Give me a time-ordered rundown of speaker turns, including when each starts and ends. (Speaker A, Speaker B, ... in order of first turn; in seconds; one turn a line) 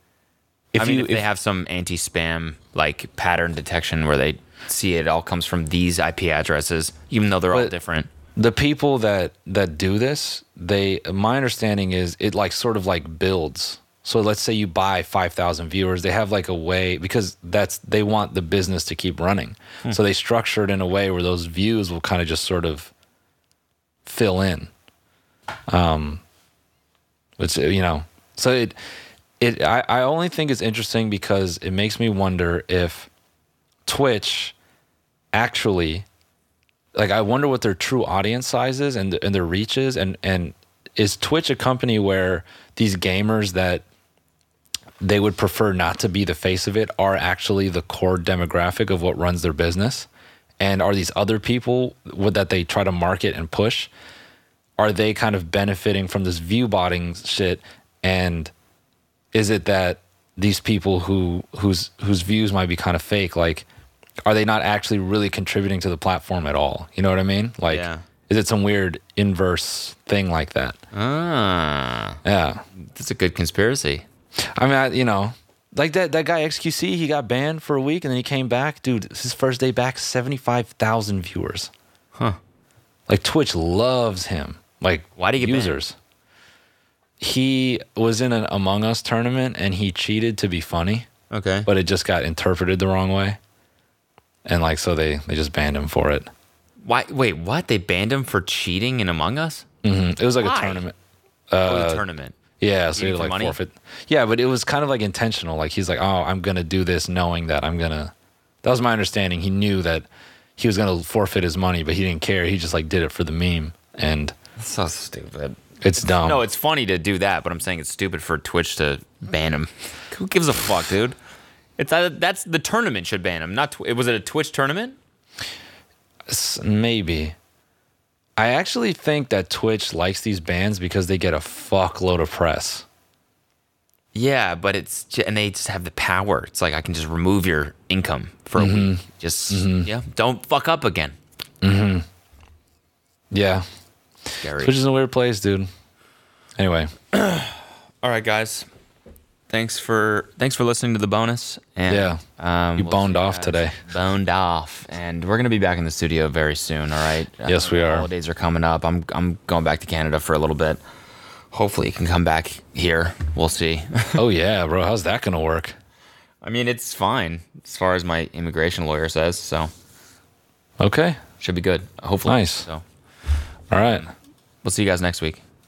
Speaker A: 0.7-1.2
Speaker B: 0.8-8.1
Speaker A: 8.3-22.9
Speaker A: 24.0-24.7
Speaker A: 25.7-26.2
Speaker A: 27.4-28.8
Speaker A: 29.4-33.1
Speaker A: 33.9-34.5
Speaker A: 35.3-36.0
Speaker A: 36.9-43.8
Speaker A: 45.0-50.1
Speaker A: 50.6-53.9
Speaker A: 54.8-58.5
Speaker A: 59.3-63.6
Speaker A: 64.2-70.8
Speaker B: 67.7-68.0
Speaker B: 70.9-72.2
Speaker A: 72.2-72.6
Speaker B: 72.8-74.0
Speaker A: 74.4-81.7
Speaker A: 83.1-86.0
Speaker B: 85.2-85.8
Speaker A: 87.2-91.1
Speaker B: 91.3-91.7
Speaker A: 91.6-93.4
Speaker A: 94.4-96.3
Speaker B: 96.8-99.7
Speaker A: 99.8-100.9
Speaker B: 100.4-100.8
Speaker A: 101.5-102.0
Speaker B: 101.6-102.3
Speaker A: 102.6-114.3
Speaker B: 102.9-103.6
Speaker B: 114.6-121.2
Speaker A: 115.8-116.4
Speaker B: 121.8-125.0
Speaker A: 126.3-127.3
Speaker A: 128.3-132.8
Speaker B: 134.1-141.2
Speaker A: 138.6-139.9
Speaker A: 141.6-142.1
Speaker A: 143.3-143.7
Speaker B: 144.4-144.7
Speaker A: 144.5-145.7
Speaker A: 146.6-146.9
Speaker B: 147.1-148.7
Speaker B: 149.5-160.8
Speaker A: 151.9-152.2
Speaker A: 152.8-153.8
Speaker A: 157.4-158.1
Speaker B: 161.5-164.2
Speaker A: 164.2-165.8
Speaker B: 166.4-169.7
Speaker A: 170.8-171.2
Speaker B: 171.4-172.8
Speaker A: 172.2-172.7
Speaker A: 173.7-174.1
Speaker B: 174.6-175.4